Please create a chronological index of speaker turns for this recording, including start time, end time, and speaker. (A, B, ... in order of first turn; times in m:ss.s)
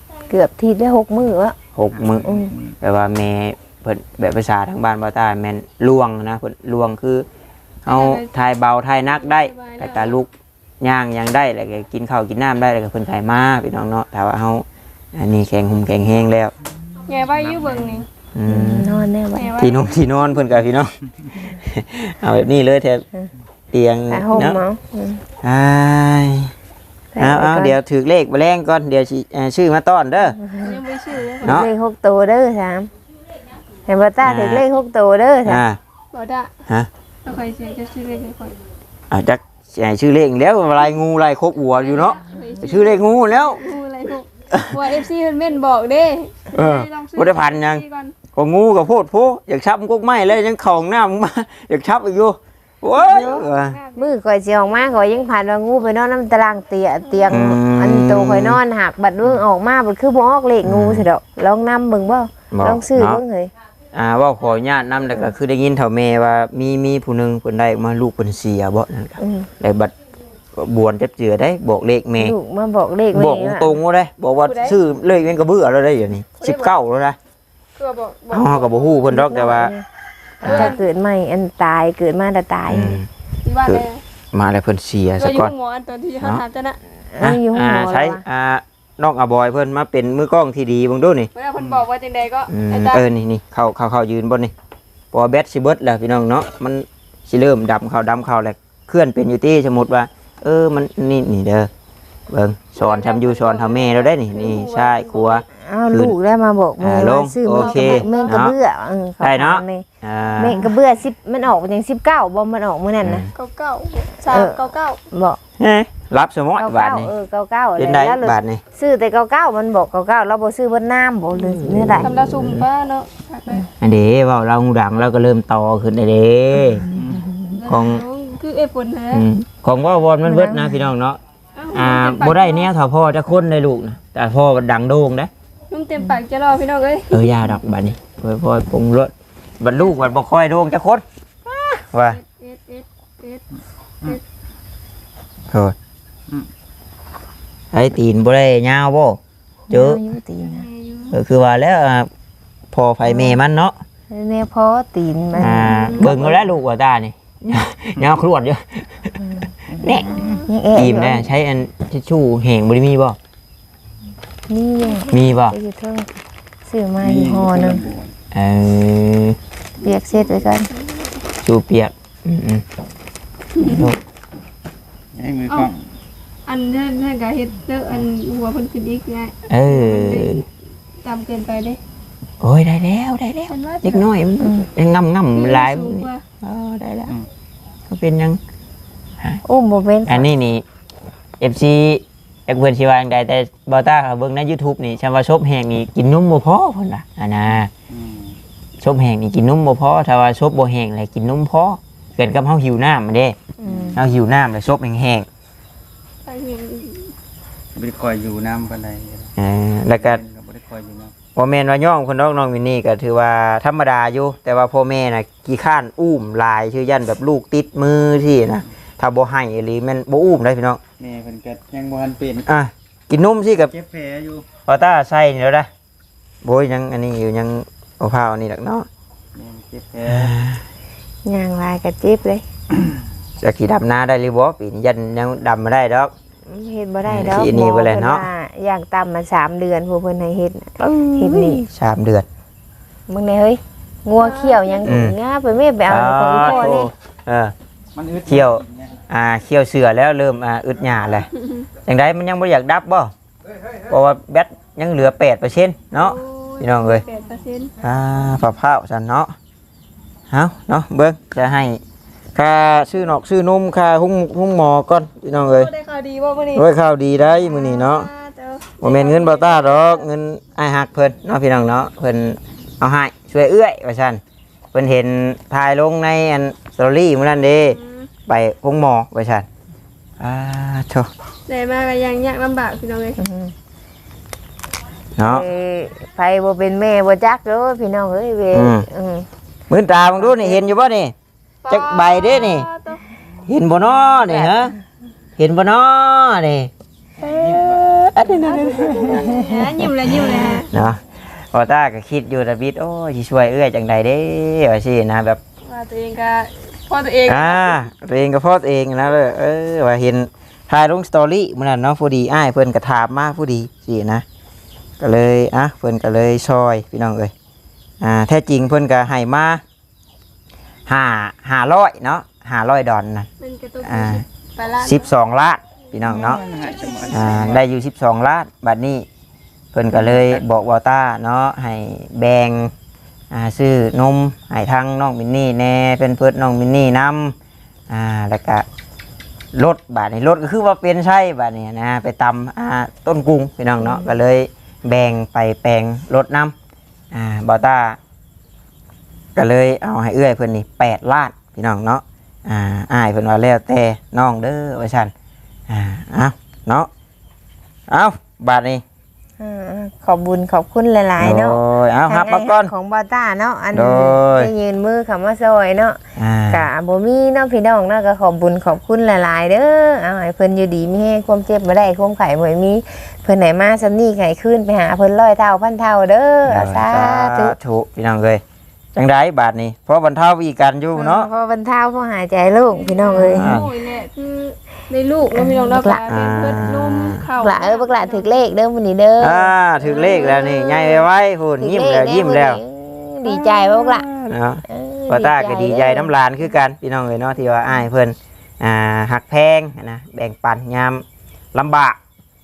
0:00.3-0:01.6 A
0:01.8-0:07.3 B
0:01.9-0:02.8 C
0:02.2-0:02.5 A
0:07.8-0:10.3 B
0:07.9-0:08.3 D
0:09.1-0:10.1 D
0:10.8-0:16.5 B
0:16.9-0:18.0 C
0:17.0-0:18.1 D
0:18.4-0:19.1 B
0:18.5-0:19.6 A
0:19.4-0:20.0 D
0:19.6-0:23.0 B
0:23.7-0:24.6 B
0:24.1-0:25.2 A
0:25.4-0:26.5 B
0:27.1-0:27.8 A
0:27.2-0:30.4 B
0:30.4-0:30.7 A
0:30.6-0:31.6 D
0:31.4-0:31.7 B
0:31.4-0:32.9 A
0:33.9-0:35.6 A
0:34.2-0:34.6 B
0:35.4-0:35.8 B
0:36.1-0:36.5 D
0:37.2-0:38.6 D
0:39.1-0:43.6 B
0:41.8-0:48.2 D
0:44.5-0:45.0 B
0:46.5-0:53.8 B
0:52.9-0:54.1 D
0:54.0-1:03.5 A
0:57.1-0:57.4 D
0:57.3-0:58.6 B
1:00.6-1:01.1 B
1:02.5-1:03.2 B
1:03.9-1:09.9 B
1:09.2-1:09.5 A
1:10.5-1:12.4 B
1:12.2-1:13.8 A
1:13.1-1:17.2 B
1:14.4-1:14.8 D
1:16.4-1:16.7 D
1:17.8-1:19.1 D
1:18.3-1:19.7 B
1:19.1-1:19.8 A
1:20.4-1:23.0 A
1:20.4-1:20.7 B
1:20.4-1:20.8 D
1:22.7-1:23.1 B
1:23.4-1:24.0 D
1:23.7-1:25.5 B
1:25.2-1:26.8 D
1:27.1-1:28.2 A
1:27.2-1:31.3 B
1:31.4-1:33.1 D
1:31.6-1:31.8 C
1:32.5-1:34.5 B
1:35.1-1:41.7 B
1:42.3-1:46.2 B
1:42.8-1:45.4 D
1:45.5-1:49.9 A
1:46.8-1:48.6 B
1:47.6-1:48.4 D
1:49.2-1:50.8 B
1:50.4-1:53.3 A
1:53.0-1:53.3 B
1:53.4-1:55.0 D
1:54.3-1:54.6 A
1:55.1-1:55.4 A
1:55.6-1:57.1 B
1:56.6-2:02.1 A
1:57.8-1:58.6 B
2:01.3-2:02.7 B
2:02.0-2:03.7 D
2:03.8-2:06.9 B
2:06.9-2:07.3 C
2:06.9-2:07.6 A
2:07.5-2:09.3 D
2:07.7-2:08.0 B
2:09.1-2:11.2 B
2:10.2-2:10.9 A
2:11.6-2:12.7 D
2:11.7-2:15.3 B
2:15.7-2:17.1 D
2:17.1-2:22.2 B
2:22.1-2:23.4 D
2:27.7-2:29.2 B
2:29.7-2:30.7 A
2:29.7-2:30.0 B
2:30.4-2:31.2 D
2:31.1-2:32.1 B
2:32.7-2:33.8 B
2:33.1-2:33.4 A
2:34.1-2:36.4 A
2:35.4-2:43.2 B
2:35.7-2:36.1 D
2:39.2-2:41.3 A
2:40.1-2:40.5 D
2:44.5-2:46.1 A
2:44.8-2:45.3 D
2:45.1-2:45.6 B
2:46.7-2:47.8 A
2:47.0-2:48.1 C
2:48.3-2:49.4 B
2:49.8-2:50.7 A
2:50.2-2:51.2 D
2:51.4-2:52.6 B
2:53.6-2:53.9 D
2:53.6-2:54.0 B
2:55.2-2:55.8 C
2:56.5-3:00.5 D
2:59.5-3:00.4 B
3:01.0-3:01.8 D
3:02.4-3:07.2 B
3:03.5-3:04.1 D
3:04.4-3:04.7 A
3:05.3-3:06.2 D
3:07.9-3:08.4 B
3:09.4-3:10.3 A
3:10.1-3:10.6 B
3:11.4-3:17.7 B
3:17.9-3:18.4 C
3:18.8-3:23.4 B
3:23.6-3:24.0 A
3:23.7-3:24.0 C
3:23.9-3:25.3 B
3:26.2-3:27.1 D
3:27.8-3:29.3 C
3:29.4-3:30.2 B
3:29.9-3:31.1 C
3:31.4-3:40.8 B
3:41.0-3:42.5 C
3:42.5-3:43.7 B
3:43.7-3:44.5 C
3:44.7-3:45.7 B
3:46.4-3:48.9 B
3:49.4-3:50.3 C
3:50.1-3:50.6 B
3:51.3-3:52.4 A
3:53.4-3:56.1 B
3:56.5-4:01.7 A
3:57.1-3:58.3 B
4:00.8-4:02.3 B
4:03.1-4:06.9 A
4:04.2-4:05.0 D
4:04.8-4:05.2 B
4:05.9-4:07.6 B
4:06.4-4:06.9 D
4:08.0-4:09.0 C
4:08.3-4:11.3 B
4:11.4-4:11.7 D
4:11.8-4:13.1 B
4:13.9-4:17.0 B
4:16.0-4:17.7 D
4:17.8-4:19.3 B
4:20.3-4:21.8 B
4:22.4-4:25.7 B
4:25.4-4:26.7 D
4:26.6-4:28.1 B
4:27.3-4:30.0 D
4:28.8-4:34.2 B
4:34.7-4:39.5 B
4:37.7-4:38.1 D
4:40.2-4:41.1 B
4:41.5-4:43.2 D
4:43.2-4:43.5 A
4:45.2-4:45.5 B
4:45.2-4:49.3 A
4:48.5-4:48.8 B
4:49.7-4:51.1 B
4:50.2-4:50.6 A
4:51.6-4:53.0 D
4:51.7-4:52.7 B
4:53.5-4:54.8 B
4:54.2-4:54.7 A
4:55.4-4:56.7 B
4:57.2-4:58.0 C
4:57.3-5:05.4 B
4:58.5-5:00.7 D
4:58.6-4:59.4 C
5:05.7-5:07.8 D
5:07.3-5:14.2 B
5:15.0-5:17.3 B
5:18.0-5:19.6 B
5:20.9-5:23.3 B
5:23.4-5:25.1 D
5:23.8-5:24.2 B
5:24.8-5:26.4 B
5:26.0-5:27.6 C
5:27.1-5:29.1 B
5:29.7-5:32.7 B
5:29.9-5:30.4 C
5:33.3-5:37.4 B
5:37.9-5:38.7 B
5:39.5-5:46.5 B
5:43.8-5:44.1 A
5:47.1-5:48.0 B
5:49.4-5:55.1 B
5:55.7-5:56.9 B
5:57.9-5:58.8 B
5:59.4-6:17.6 A
6:01.2-6:02.7 B
6:03.7-6:04.5 B
6:06.2-6:06.7 B
6:16.5-6:18.4 B
6:19.0-6:21.3 B
6:21.0-6:23.5 A
6:22.7-6:28.4 D
6:23.2-6:23.7 B
6:25.3-6:26.0 A
6:26.1-6:27.2 B
6:27.4-6:29.5 A
6:29.2-6:32.6 B
6:29.8-6:31.1 D
6:31.6-6:34.1 A
6:33.3-6:42.0 B
6:34.7-6:36.1 A